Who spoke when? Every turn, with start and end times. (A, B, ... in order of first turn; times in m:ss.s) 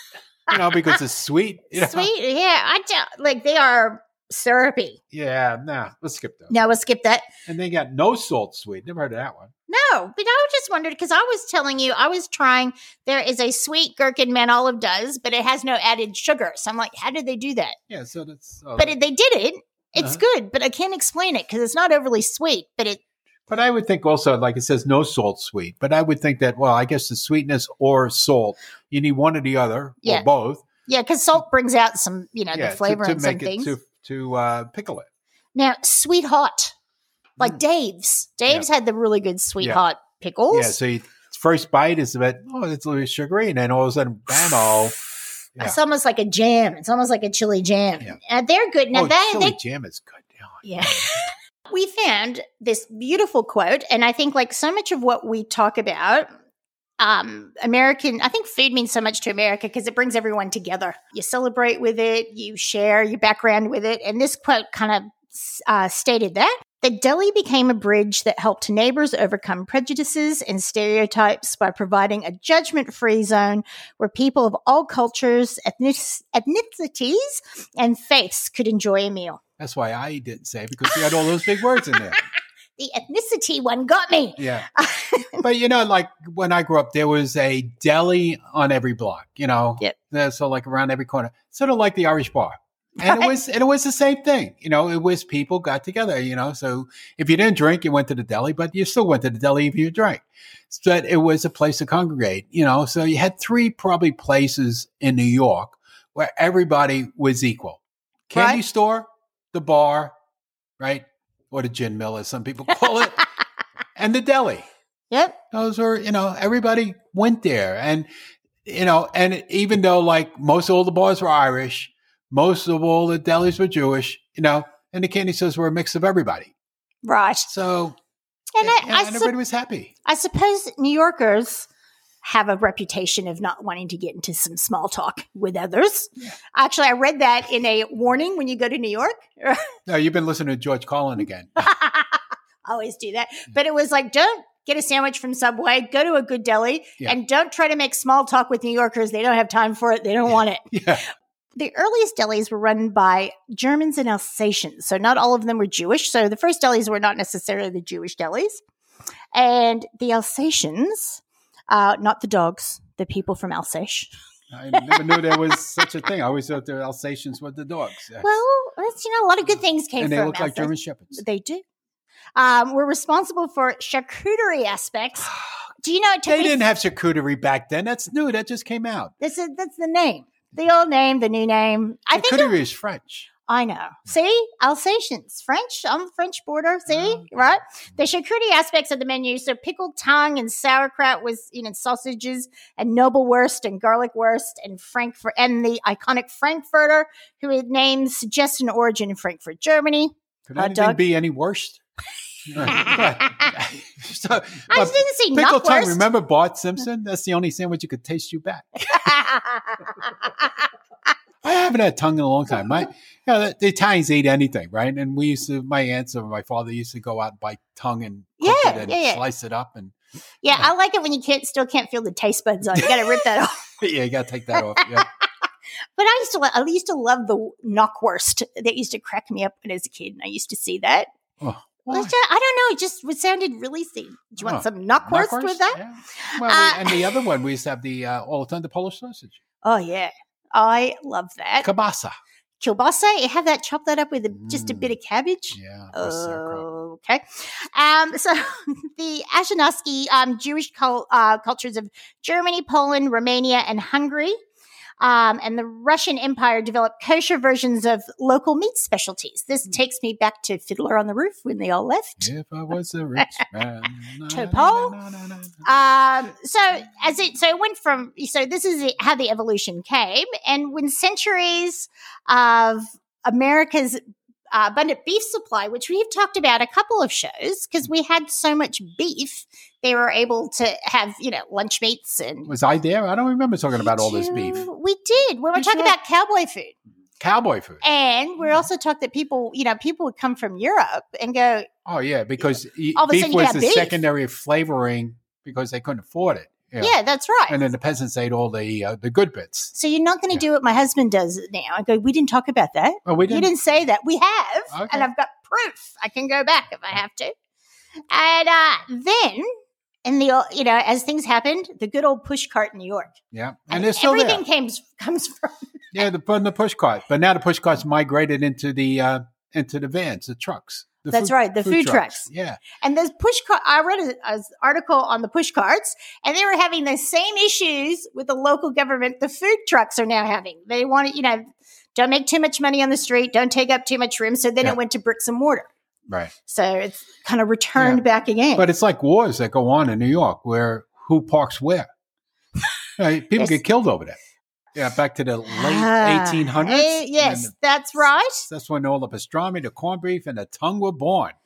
0:00.5-0:02.1 A
0:01.7-0:05.0 B
0:05.1-0:06.6 A
0:06.5-0:07.2 B
0:07.4-0:09.5 A
0:09.7-0:17.8 B
0:17.9-0:18.9 A
0:18.8-0:23.0 B
0:20.0-0:20.2 A
0:23.5-0:30.6 A
0:30.8-0:33.7 B
0:32.5-0:35.1 A
0:35.5-0:36.7 B
0:37.4-0:40.8 B
0:40.5-0:45.0 A
0:45.6-0:49.6 B
0:48.9-0:51.0 A
0:50.6-0:56.3 B
0:57.0-1:19.4 B
1:19.6-1:22.2 A
1:22.8-1:25.4 B
1:24.4-1:24.7 A
1:25.4-1:50.1 A
1:33.0-1:33.3 B
1:48.3-1:48.6 B
1:50.8-1:53.2 A
1:54.0-1:54.7 A
1:55.1-1:55.4 B
1:55.5-1:58.1 A
1:58.6-2:06.5 A
2:07.0-2:07.5 B
2:07.5-2:08.0 A
2:08.6-2:09.3 B
2:08.6-2:09.9 A
2:10.0-2:11.7 B
2:12.2-2:19.6 B
2:19.9-2:21.7 A
2:21.6-2:30.7 B
2:30.7-2:31.0 A
2:31.6-2:38.6 B
2:39.3-2:44.1 B
2:44.5-2:48.3 A
2:44.8-2:45.4 B
2:48.2-2:51.6 B
2:50.0-2:51.2 A
2:52.4-2:55.3 B
2:55.8-2:56.6 B
2:56.2-2:59.1 A
2:59.2-3:02.5 B
3:02.1-3:03.3 A
3:03.5-3:21.0 B
3:06.9-3:07.6 A
3:20.5-3:21.8 A
3:22.5-3:29.1 A
3:22.6-3:23.5 B
3:24.7-3:26.0 B
3:28.9-3:30.5 B
3:31.4-3:39.9 A
3:38.4-3:39.2 B
3:40.4-3:43.6 B
3:42.7-3:43.2 A
3:43.8-3:45.1 A
3:44.8-3:45.0 B
3:46.0-3:51.1 B
3:51.4-3:52.1 A
3:51.9-3:57.1 B
3:54.4-3:59.4 A
3:59.6-4:01.7 B
4:01.6-4:02.2 A
4:02.6-4:14.4 B
4:04.3-4:04.9 A
4:05.5-4:06.6 A
4:15.0-4:22.3 B
4:22.2-4:25.6 A
4:24.3-4:25.0 B
4:25.6-4:34.0 B
4:34.5-4:42.5 B
4:42.4-4:44.7 A
4:43.8-4:46.7 B
4:45.5-4:45.9 A
4:47.2-4:47.8 A
4:47.8-4:51.7 B
4:51.8-4:57.0 A
4:52.9-4:54.0 B
4:56.8-4:57.6 B
4:57.5-4:59.7 A
4:59.7-5:07.3 B
5:03.0-5:03.5 A
5:04.7-5:05.1 A
5:08.1-5:09.5 B
5:10.0-5:13.2 B
5:13.3-5:14.4 A
5:13.7-5:15.8 B
5:15.9-5:22.6 A
5:21.1-5:22.3 B
5:22.8-5:35.7 B
5:36.5-5:38.7 B
5:37.8-5:38.0 A
5:38.6-5:41.9 A
5:43.0-5:44.2 A
5:44.7-5:47.5 A
5:45.5-5:48.4 B
5:48.4-5:51.4 A